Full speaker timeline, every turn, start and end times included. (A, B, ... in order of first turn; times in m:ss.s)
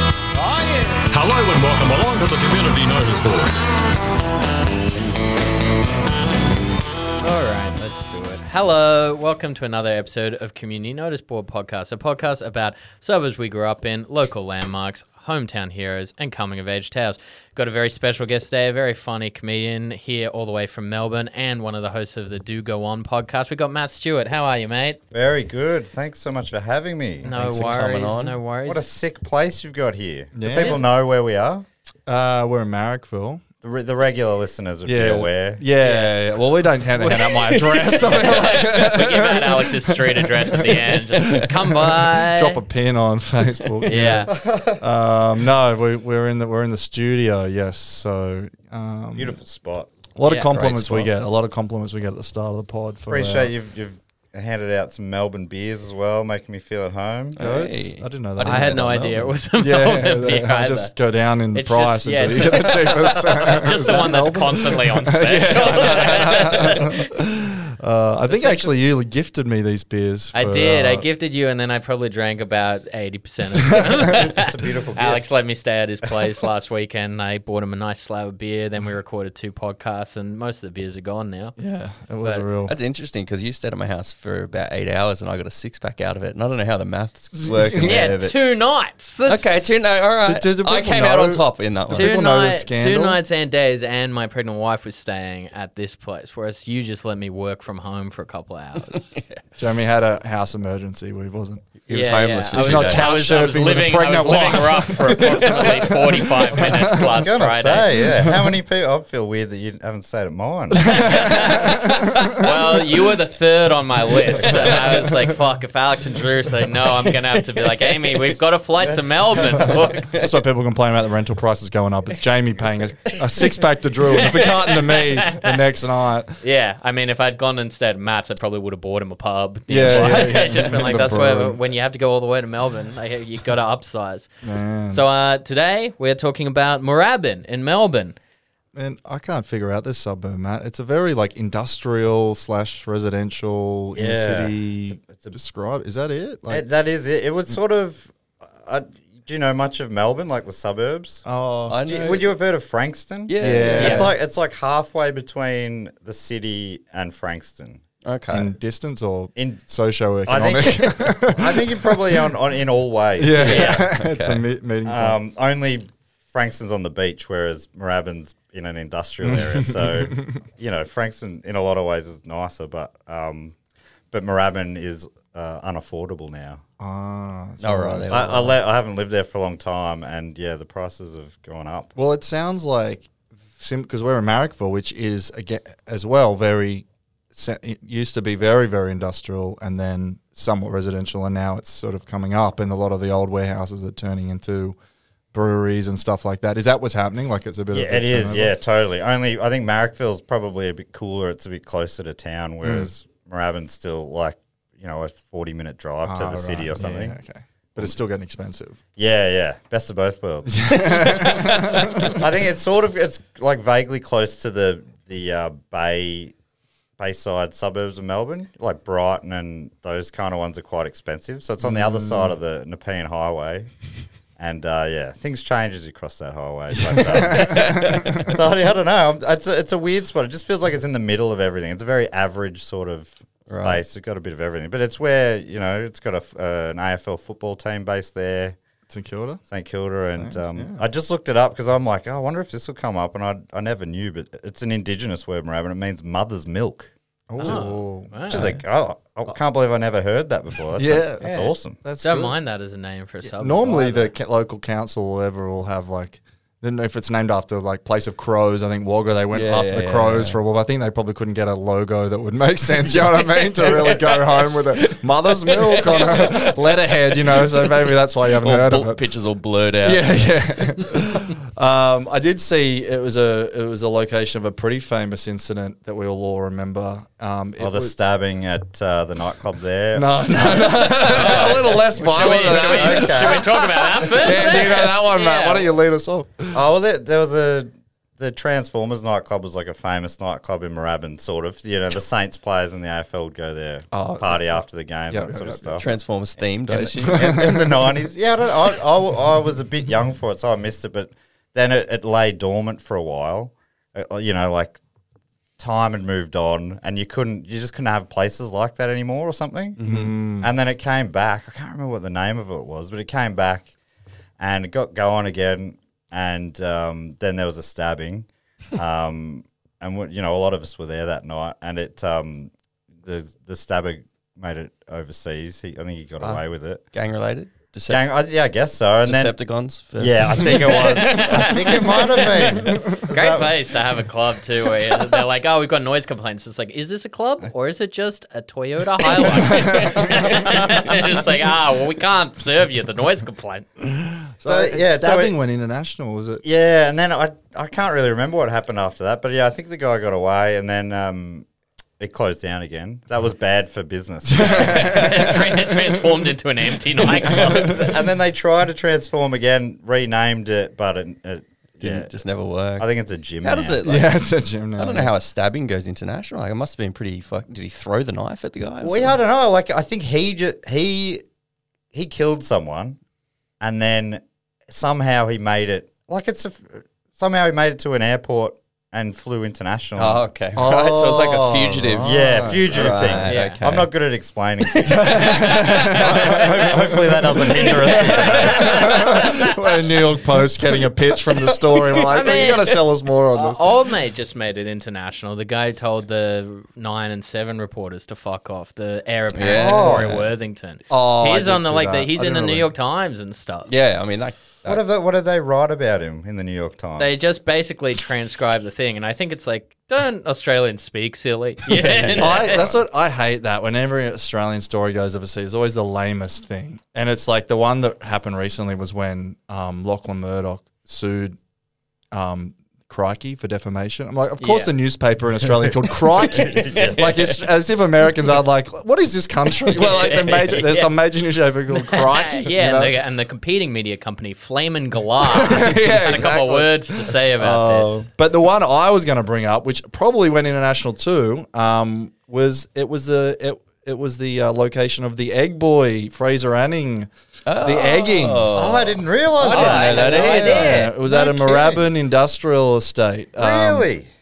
0:00.4-0:03.5 A
0:07.2-0:25.0 B
0:25.1-0:27.3 C
0:27.2-0:28.4 D
0:27.2-0:28.8 B
0:28.6-0:31.6 C
0:30.3-0:30.8 E
0:32.1-0:33.4 E
0:33.6-0:35.6 C
0:34.8-0:49.4 E
0:35.8-0:36.2 B
0:37.0-0:39.0 D
0:38.1-0:42.6 B
0:43.9-0:44.3 B
0:44.3-0:44.8 C
0:49.2-0:49.9 C
0:50.1-0:53.5 E
0:50.2-0:50.5 B
0:50.5-0:51.1 D
0:53.1-0:57.4 C
0:57.4-0:58.9 E
0:57.4-0:59.3 D
0:58.4-1:00.9 B
0:59.6-1:11.0 E
1:01.5-1:07.1 B
1:08.3-1:08.7 B
1:10.3-1:21.6 B
1:14.1-1:15.2 C
1:21.6-1:22.7 E
1:22.7-1:28.3 D
1:27.4-1:28.1 E
1:27.8-1:29.6 B
1:29.2-1:32.1 D
1:30.2-1:33.2 E
1:31.9-1:39.2 B
1:38.9-1:39.4 D
1:39.6-1:41.7 E
1:41.9-1:43.1 D
1:41.9-1:47.9 B
1:42.5-1:47.2 E
1:47.2-1:51.4 C
1:48.1-1:48.5 E
1:50.8-2:00.1 B
1:50.8-1:52.3 E
1:52.2-1:52.7 D
1:54.3-1:55.3 E
1:57.4-1:58.1 D
1:59.5-2:00.4 D
1:59.6-2:06.4 E
2:04.1-2:05.6 B
2:06.4-2:14.3 B
2:09.7-2:11.6 E
2:09.8-2:10.7 D
2:14.4-2:15.0 E
2:14.9-2:18.2 B
2:18.7-2:26.6 E
2:23.9-2:25.3 C
2:26.5-2:31.2 C
2:31.2-2:32.2 E
2:31.7-2:32.3 D
2:31.9-2:37.8 C
2:33.3-2:34.1 D
2:33.4-2:34.1 E
2:33.8-2:34.1 B
2:38.0-2:38.5 D
2:38.3-2:42.3 E
2:40.3-2:43.9 C
2:43.2-2:45.2 E
2:43.3-2:44.4 D
2:44.8-2:53.5 C
2:49.2-2:50.3 E
2:54.1-2:56.6 C
2:56.8-2:58.5 E
2:57.6-2:58.6 D
2:58.1-3:01.9 C
3:01.9-3:14.8 E
3:15.3-3:18.5 E
3:17.7-3:27.1 C
3:22.6-3:22.9 E
3:26.0-3:28.8 E
3:29.0-3:36.3 C
3:30.5-3:32.3 E
3:37.0-3:43.7 C
3:41.6-3:42.3 E
3:44.4-3:58.6 C
3:47.1-3:48.3 E
3:47.2-3:48.3 D
3:53.5-3:53.8 D
3:58.9-3:59.4 E
3:59.5-4:07.6 C
4:00.2-4:00.8 E
4:07.3-4:08.1 E
4:07.4-4:08.6 B
4:08.3-4:11.8 C
4:10.8-4:12.3 E
4:11.2-4:14.1 B
4:13.2-4:29.0 E
4:19.3-4:20.4 D
4:22.9-4:26.5 D
4:27.4-4:30.3 D
4:29.8-4:37.9 E
4:37.6-4:43.5 C
4:39.9-4:46.6 E
4:41.1-4:45.7 B
4:46.5-4:55.9 C
4:53.9-4:55.8 E
4:55.8-4:57.5 D
4:56.7-5:04.8 C
4:57.0-4:58.0 E
5:05.6-5:13.7 C
5:09.8-5:10.1 D
5:09.8-5:10.5 E
5:14.4-5:26.8 C
5:26.2-5:28.1 D
5:27.9-5:29.3 C
5:29.0-5:32.8 D
5:30.0-5:33.6 C
5:30.6-5:43.7 B
5:32.6-5:33.0 E
5:39.4-5:40.3 E
5:39.8-5:41.0 C
5:43.8-5:46.4 E
5:44.4-5:45.3 C
5:46.4-5:51.4 C
5:52.0-5:55.1 C
5:54.3-5:56.0 E
5:54.4-5:57.9 B
5:57.2-6:02.1 C
5:57.3-5:58.0 E
6:01.8-6:02.9 D
6:02.8-6:03.8 C
6:03.4-6:04.1 D
6:03.8-6:05.1 E
6:04.8-6:09.2 D
6:08.8-6:11.2 C
6:11.9-6:13.0 C
6:13.6-6:20.3 C
6:20.0-6:23.9 D
6:20.5-6:23.3 E
6:22.0-6:29.1 C
6:23.3-6:23.6 B
6:24.6-6:29.2 D
6:24.8-6:33.6 E
6:29.0-6:29.4 B
6:31.4-6:32.8 D
6:32.0-6:32.7 B
6:33.3-6:43.7 B
6:39.3-6:40.2 D
6:39.6-6:40.2 C
6:40.9-6:42.7 E
6:43.7-6:44.8 D
6:44.6-6:47.2 C
6:47.0-6:52.7 B
6:51.8-6:52.4 D
6:52.0-6:52.7 C
6:52.2-7:01.4 E
7:02.1-7:12.9 E
7:04.4-7:04.7 B
7:06.2-7:07.5 D
7:06.4-7:07.0 C
7:09.8-7:10.9 B
7:11.8-7:18.0 B
7:15.2-7:27.1 E
7:27.4-7:30.9 D
7:27.6-7:28.6 E
7:28.5-7:31.7 C
7:29.5-7:33.9 E
7:29.5-7:31.0 B
7:33.4-7:34.1 C